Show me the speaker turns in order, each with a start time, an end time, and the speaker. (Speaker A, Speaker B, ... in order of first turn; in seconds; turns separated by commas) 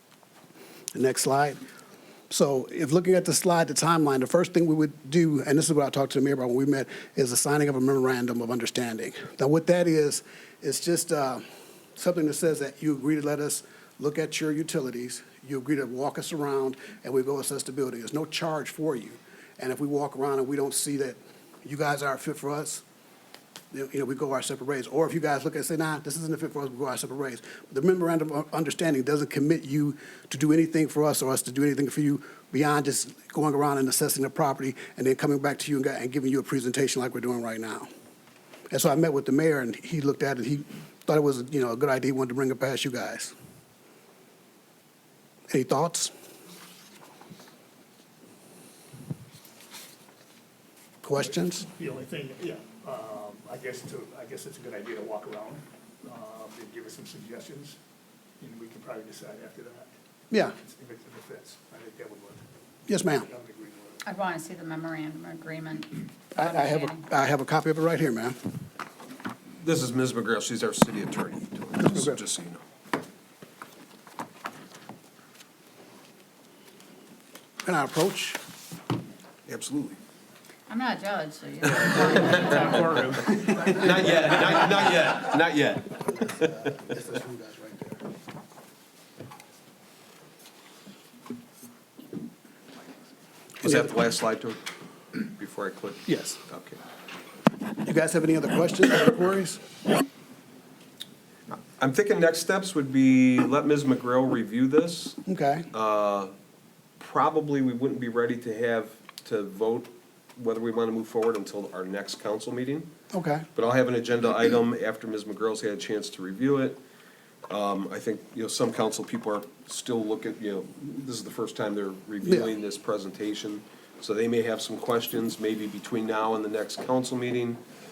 Speaker A: 0.9-1.6, Speaker A: 2.3-11.4, Speaker A: 12.0-22.8, Speaker A: 23.7-37.9, Speaker A: 38.7-43.3, Speaker A: 45.5-46.1, Speaker A: 51.0-51.7, Speaker B: 51.2-57.8, Speaker B: 58.4-59.9, Speaker A: 60.3-60.6, Speaker B: 60.6-62.5, Speaker A: 62.9-63.3, Speaker B: 63.1-64.0, Speaker C: 64.0-67.0, Speaker A: 66.4-68.4, Speaker D: 69.6-72.6, Speaker A: 77.6-78.4, Speaker D: 79.5-80.0, Speaker C: 80.7-83.8, Speaker D: 83.7-86.0, Speaker A: 86.3-88.0, Speaker A: 93.6-93.9, Speaker D: 93.7-94.6, Speaker D: 95.4-96.0, Speaker A: 96.1-96.4, Speaker A: 97.8-99.6, Speaker D: 101.5-105.2, Speaker A: 105.3-105.7, Speaker D: 105.7-106.3, Speaker D: 107.0-112.9, Speaker A: 113.1-113.5, Speaker D: 113.6-116.8, Speaker D: 117.5-127.6, Speaker A: 122.2-122.5